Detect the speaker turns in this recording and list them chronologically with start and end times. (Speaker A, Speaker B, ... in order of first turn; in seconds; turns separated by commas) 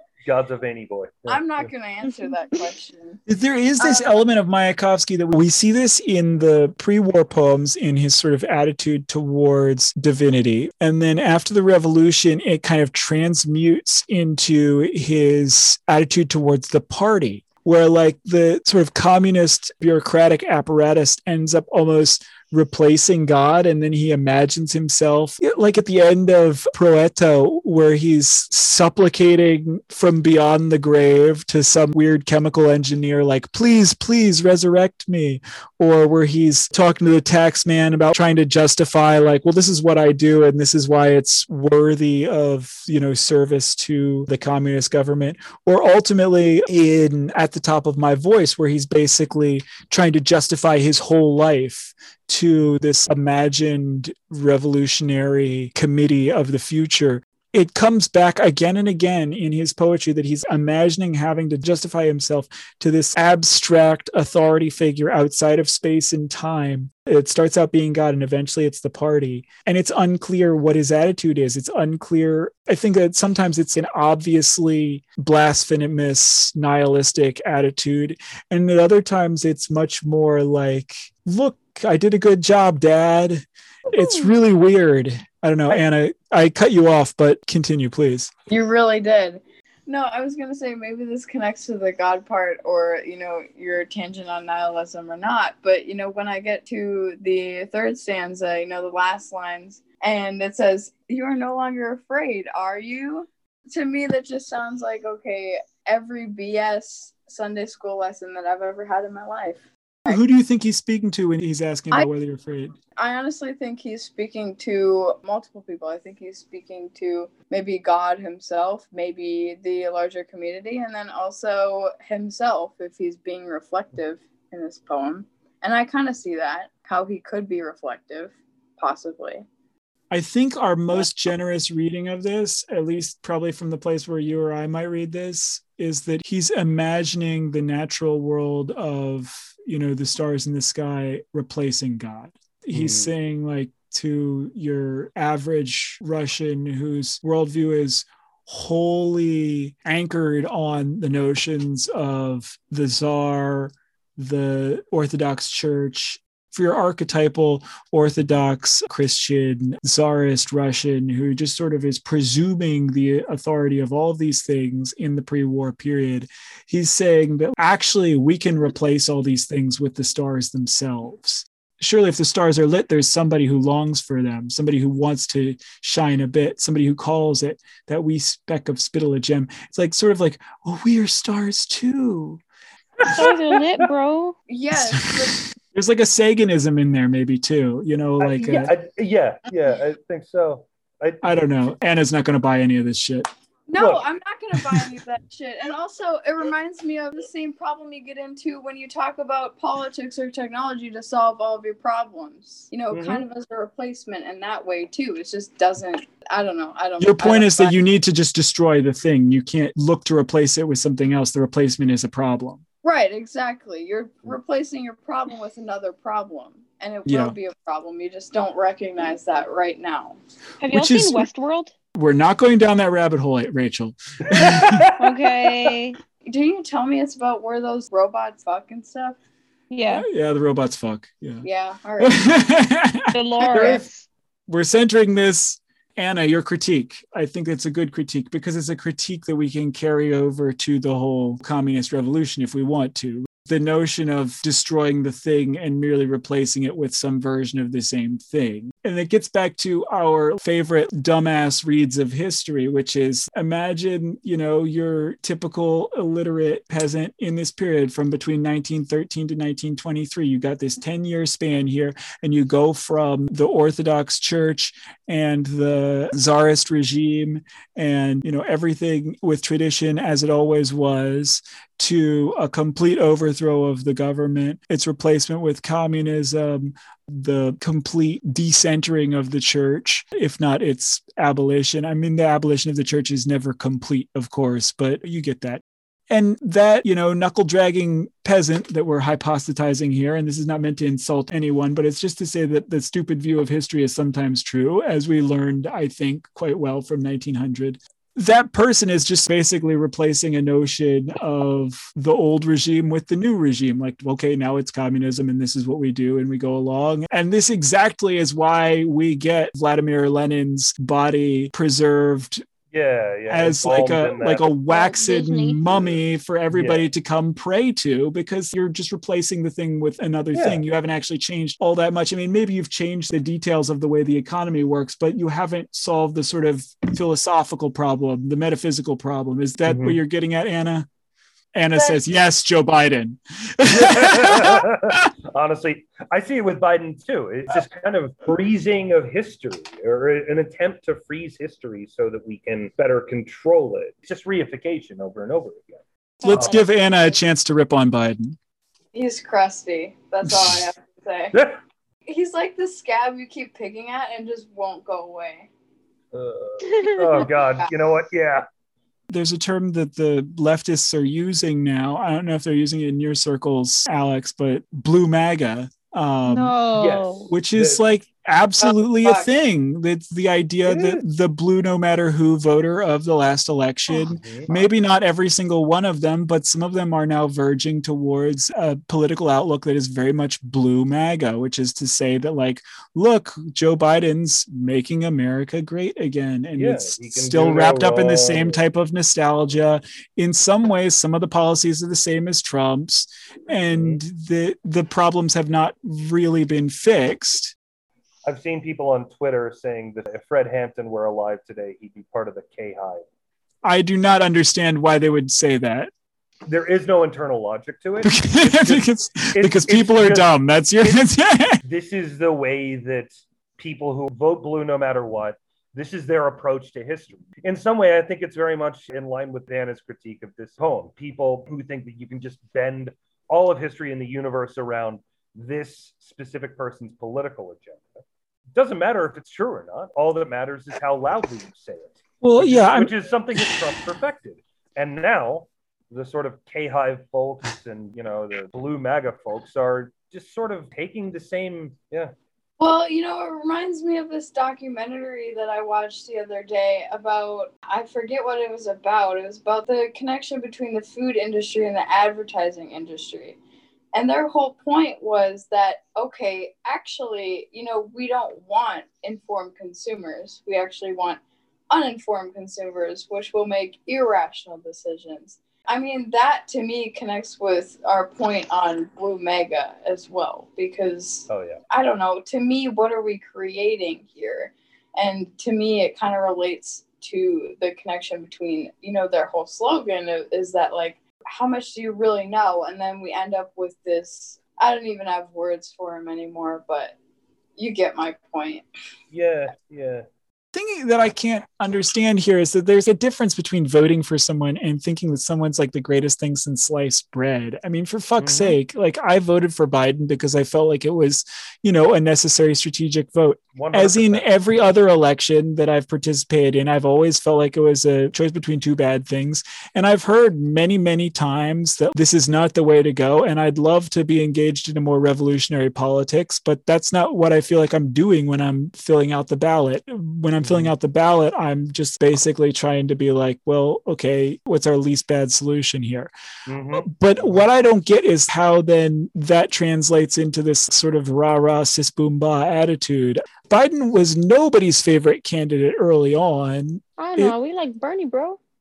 Speaker A: 0.2-1.7, Speaker B: 1.3-3.2, Speaker C: 3.3-88.3, Speaker B: 3.8-4.1, Speaker B: 88.5-110.2, Speaker C: 110.1-112.8, Speaker B: 113.0-129.4, Speaker C: 130.1-182.4, Speaker A: 142.7-143.1, Speaker A: 183.0-183.3, Speaker D: 183.0-184.4, Speaker B: 184.5-185.4, Speaker C: 184.7-188.7, Speaker A: 188.2-191.5, Speaker C: 191.2-193.3, Speaker B: 193.7-207.8, Speaker A: 193.8-194.0, Speaker A: 202.9-203.2, Speaker C: 207.0-212.6, Speaker B: 212.8-220.2, Speaker C: 217.1-217.3, Speaker D: 220.6-221.7, Speaker C: 220.7-221.3, Speaker C: 221.9-224.9, Speaker A: 224.2-225.3, Speaker D: 224.9-226.0, Speaker B: 226.2-229.2, Speaker D: 229.7-230.1, Speaker C: 229.9-231.4, Speaker B: 231.4-232.3, Speaker C: 232.0-233.8, Speaker D: 233.1-234.1, Speaker B: 233.4-233.8, Speaker C: 234.5-312.4, Speaker A: 312.7-314.4, Speaker C: 313.3-330.9, Speaker D: 314.7-315.6, Speaker A: 315.7-316.0, Speaker A: 316.5-316.8, Speaker A: 320.3-320.6, Speaker A: 329.7-330.0, Speaker C: 331.5-335.1, Speaker A: 333.7-346.6, Speaker D: 346.2-346.7, Speaker C: 346.2-348.4, Speaker B: 348.9-351.4, Speaker C: 350.2-350.6, Speaker A: 351.3-351.6, Speaker B: 352.1-355.5, Speaker A: 356.1-358.4, Speaker D: 356.7-357.1, Speaker C: 359.1-366.6, Speaker D: 366.2-367.3, Speaker A: 366.7-367.8, Speaker C: 367.3-397.5, Speaker A: 370.6-371.0, Speaker A: 374.2-374.5, Speaker A: 386.6-388.6, Speaker A: 393.5-394.0, Speaker A: 398.2-403.0, Speaker C: 403.6-405.9, Speaker A: 406.5-411.1, Speaker C: 408.0-411.6, Speaker A: 411.6-428.0, Speaker A: 428.5-442.1, Speaker C: 432.2-433.7, Speaker B: 442.6-453.4, Speaker B: 453.9-486.9, Speaker A: 471.3-471.6, Speaker B: 487.6-488.6, Speaker A: 489.1-490.0, Speaker C: 490.5-526.1, Speaker A: 498.2-498.5, Speaker A: 503.5-504.4, Speaker A: 520.4-520.7, Speaker A: 526.5-527.4, Speaker C: 526.8-537.3, Speaker D: 537.0-538.4